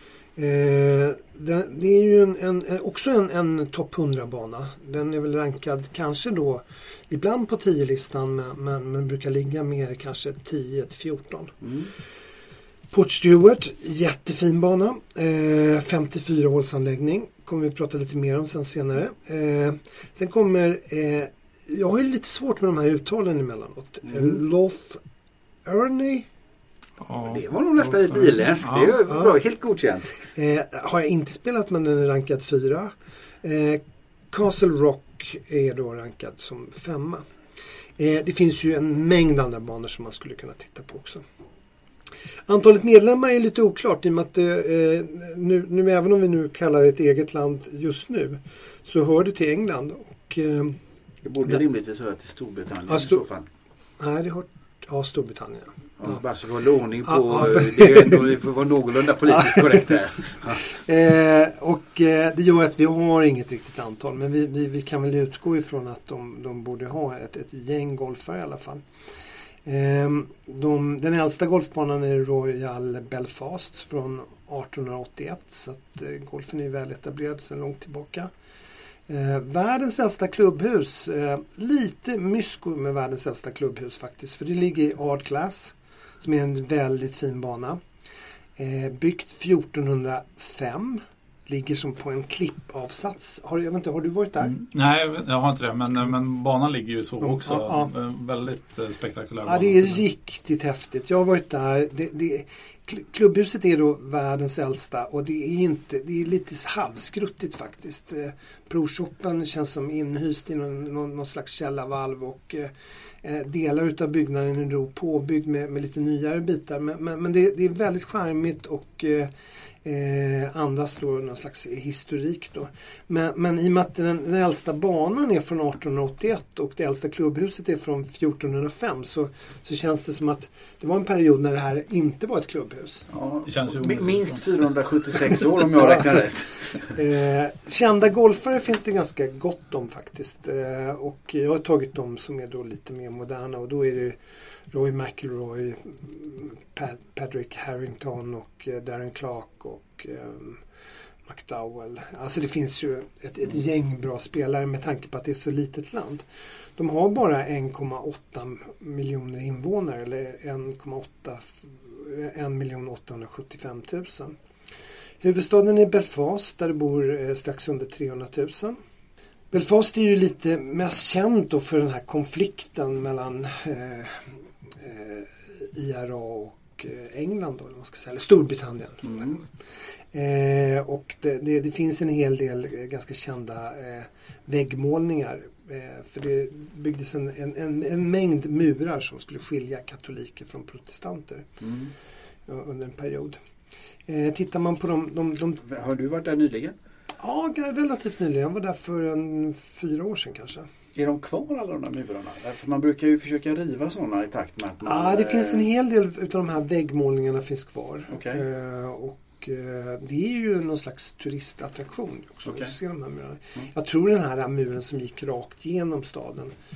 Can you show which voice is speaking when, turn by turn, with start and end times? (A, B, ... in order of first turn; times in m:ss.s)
0:00.4-0:11.6 A
0:11.6-0:11.9 B
0:12.9-0:25.0 A
0:25.6-0:26.3 A
0:27.0-0:27.4 C
0:27.2-0:30.2 B
0:28.6-0:29.0 C
0:29.1-0:29.3 A
0:30.3-0:37.2 A
0:38.0-0:41.2 A
0:42.5-0:50.8 A
0:51.2-0:53.4 B
0:52.9-0:53.2 A
0:54.0-0:56.2 A
0:56.0-1:00.6 B
0:57.1-0:58.2 A
1:00.7-1:08.8 A
1:09.6-1:18.3 A
1:19.1-1:27.8 A
1:28.6-1:34.6 A
1:34.4-1:40.0 C
1:37.3-1:37.9 A
1:39.4-1:59.3 A
1:59.8-2:13.1 A
2:13.1-2:16.9 B
2:13.4-2:14.4 C
2:16.9-2:30.6 A
2:31.2-2:36.2 A
2:36.8-2:44.3 A
2:45.2-2:48.8 A
2:49.5-2:59.4 A
3:00.1-3:11.5 A
3:11.6-3:11.9 B
3:12.5-3:13.4 A
3:14.1-3:15.6 A
3:15.6-3:16.8 B
3:17.2-3:20.7 A
3:20.9-3:25.7 B
3:24.8-3:36.5 A
3:28.1-3:28.4 B
3:32.5-3:32.7 B